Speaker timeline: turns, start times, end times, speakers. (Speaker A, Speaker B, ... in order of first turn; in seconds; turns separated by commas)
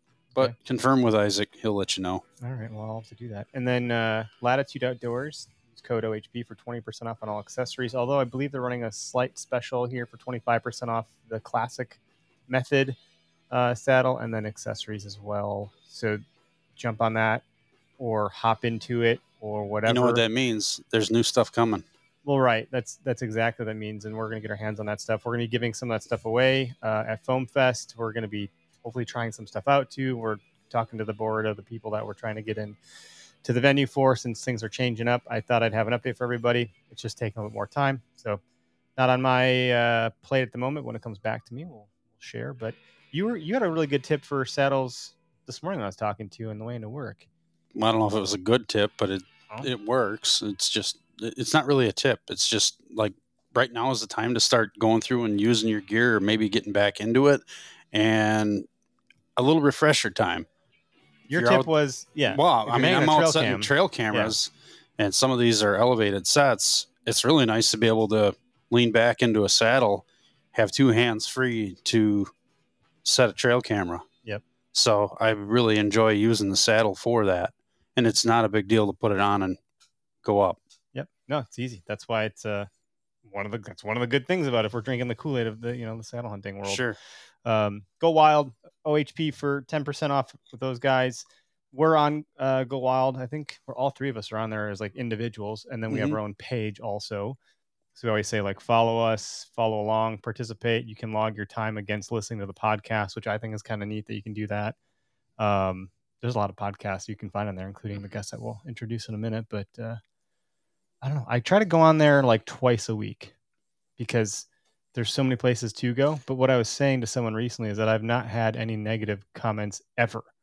Speaker A: 0.4-2.2, Speaker B: 2.4-13.0, Speaker B: 13.5-16.2, Speaker B: 16.8-17.4, Speaker B: 18.0-20.2, Speaker A: 19.9-21.9, Speaker B: 22.2-32.8, Speaker B: 33.4-38.4, Speaker B: 39.0-47.3, Speaker A: 47.8-58.7, Speaker A: 59.4-60.5, Speaker B: 61.3-64.3, Speaker A: 61.3-61.7, Speaker A: 62.3-72.3, Speaker A: 73.0-74.1, Speaker A: 74.7-79.6, Speaker A: 80.2-80.6, Speaker B: 80.9-82.7, Speaker B: 83.3-86.8, Speaker A: 86.7-87.0, Speaker B: 87.5-97.4, Speaker A: 95.9-96.2, Speaker B: 98.0-104.8, Speaker B: 105.4-110.0, Speaker B: 111.0-113.3, Speaker B: 114.0-120.3